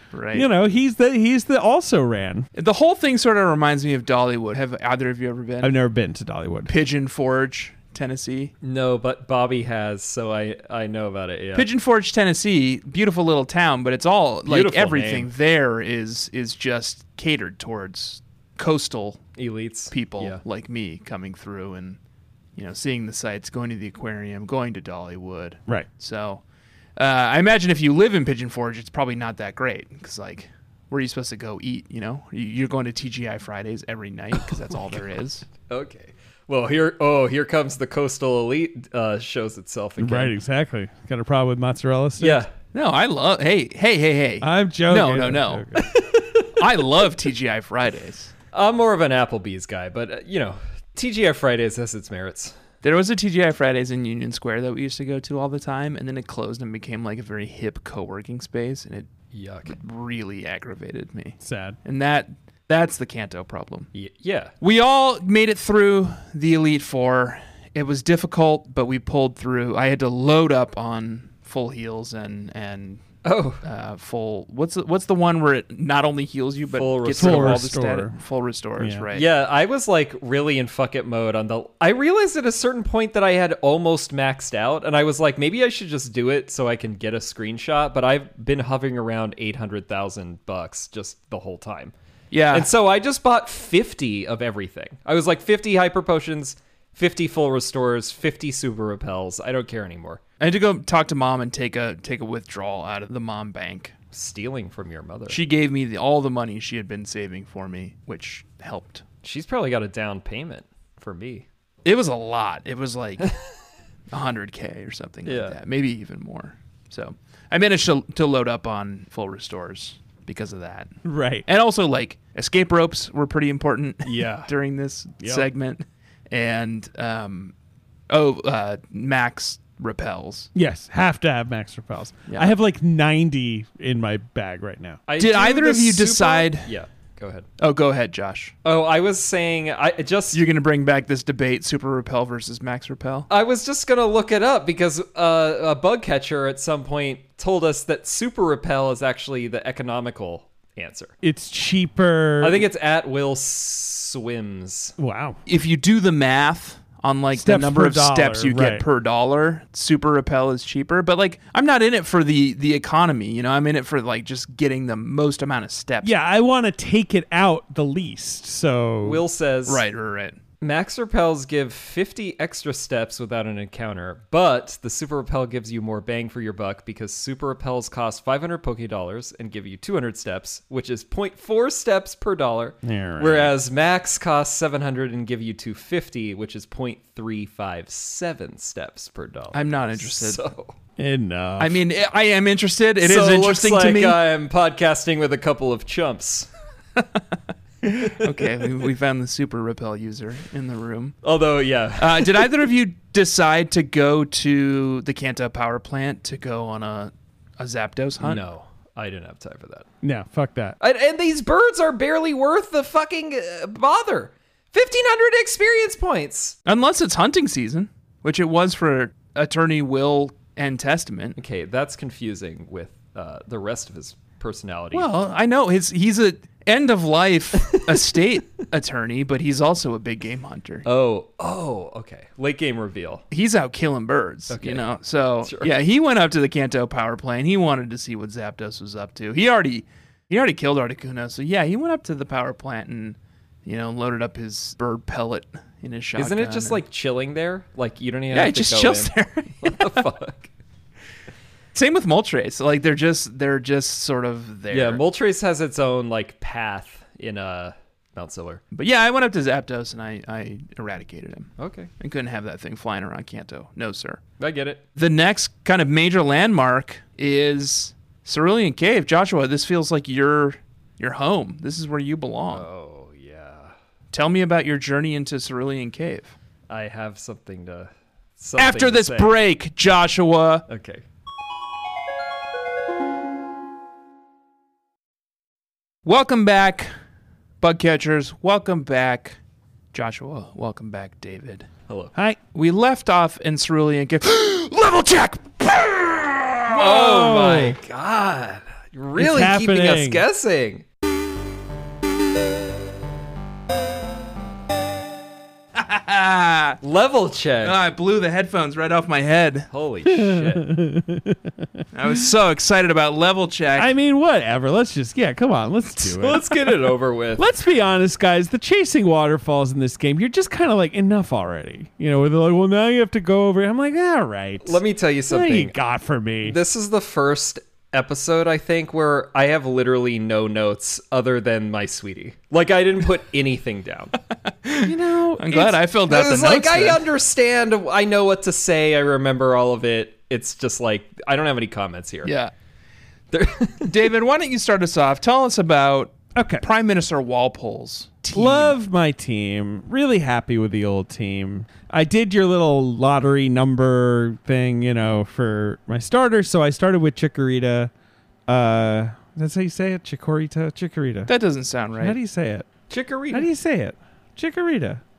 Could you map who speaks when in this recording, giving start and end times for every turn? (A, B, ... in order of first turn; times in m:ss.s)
0:00.1-0:00.5 A
0:00.3-0:02.5 B
0:02.6-0:05.7 A
0:05.6-0:06.7 B
0:06.7-0:08.5 A
0:08.6-0:11.7 C
0:11.6-0:19.2 A
0:14.5-0:15.3 C
0:19.4-0:20.4 C
0:19.9-0:22.0 A
0:22.6-0:26.4 A
0:27.0-0:35.5 A
0:34.4-0:40.4 C
0:40.0-0:42.4 B
0:42.2-0:42.5 C
0:42.7-0:45.7 A
0:44.4-0:45.9 B
0:45.8-0:46.8 C
0:46.6-0:48.3 A
0:48.5-0:52.6 C
0:52.8-0:59.1 A
0:59.3-0:59.8 C
0:59.7-1:03.9 A
1:01.4-1:01.8 B
1:03.9-1:04.5 C
1:04.6-1:13.0 A
1:13.2-1:13.6 C
1:13.6-1:19.3 A
1:16.7-1:17.7 C
1:17.2-1:18.2 B
1:18.8-1:19.1 B
1:19.1-1:31.9 C
1:32.3-1:32.7 A
1:32.5-1:40.2 C
1:40.4-1:43.9 A
1:44.1-1:45.4 C
1:45.3-1:49.0 A
1:49.2-1:51.5 C
1:51.8-1:53.3 A
1:54.1-2:00.9 A
1:55.3-1:55.6 C
2:01.0-2:01.5 B
2:01.5-2:07.5 A
2:04.0-2:04.5 C
2:05.2-2:05.5 B
2:08.1-2:10.5 A
2:10.6-2:15.0 B
2:12.3-2:12.6 A
2:15.1-2:17.5 C
2:15.2-2:16.7 A
2:17.6-2:18.5 A
2:18.6-2:20.4 C
2:20.3-2:23.3 A
2:23.3-2:31.1 C
2:31.2-2:32.6 B
2:32.4-2:35.0 C
2:35.0-2:35.4 B
2:35.5-2:46.1 A
2:37.3-2:38.8 B
2:46.0-2:49.2 B
2:49.0-2:49.8 C
2:49.7-2:50.4 A
2:50.6-3:10.7 C
3:02.8-3:03.5 B
3:09.5-3:10.4 A
3:11.0-3:11.8 B
3:11.6-3:14.2 A
3:13.0-3:16.5 C
3:17.8-3:21.2 A
3:17.9-3:18.4 C
3:21.2-3:22.6 C
3:22.0-3:28.4 A
3:28.2-3:29.9 C
3:30.0-3:30.8 B
3:30.8-3:36.6 C
3:36.7-3:41.4 A
3:41.4-3:45.1 C
3:44.9-3:50.8 A
3:47.6-3:48.1 C
3:50.8-3:53.2 C
3:53.3-4:06.8 A
3:54.5-3:54.9 C
3:55.4-3:55.8 C
4:06.2-4:10.5 C
4:08.3-4:10.1 A
4:11.7-4:15.0 A
4:14.7-4:18.6 C
4:18.7-4:24.2 A
4:21.6-4:21.9 C
4:24.4-4:24.8 C
4:25.0-4:32.7 A
4:32.5-4:33.8 C
4:34.1-4:36.3 A
4:36.7-4:39.4 C
4:38.6-4:40.7 A
4:40.7-4:41.0 C
4:46.0-4:46.9 A
4:47.6-4:49.4 A
4:49.9-4:51.7 A
4:52.5-4:55.6 A
4:56.7-4:57.8 A
4:56.7-5:00.8 C
4:56.8-4:57.8 B
4:59.2-5:00.2 B
5:05.8-5:06.8 A
5:06.8-5:07.8 C
5:07.6-5:09.7 A
5:09.7-5:10.7 C
5:10.1-5:12.2 B
5:11.9-5:13.9 A
5:13.8-5:16.7 B
5:16.0-5:17.5 C
5:17.4-5:26.6 B
5:24.6-5:25.8 C
5:26.4-5:34.1 C
5:34.6-5:37.0 A
5:34.8-5:35.8 B
5:36.1-5:42.3 C
5:42.2-5:42.5 A
5:43.3-5:43.9 C
5:43.8-5:48.8 A
5:46.4-5:46.6 B
5:48.3-5:57.9 B
5:58.5-6:01.3 B
6:01.3-6:02.2 A
6:02.0-6:02.7 B
6:02.9-6:03.5 C
6:03.3-6:05.0 B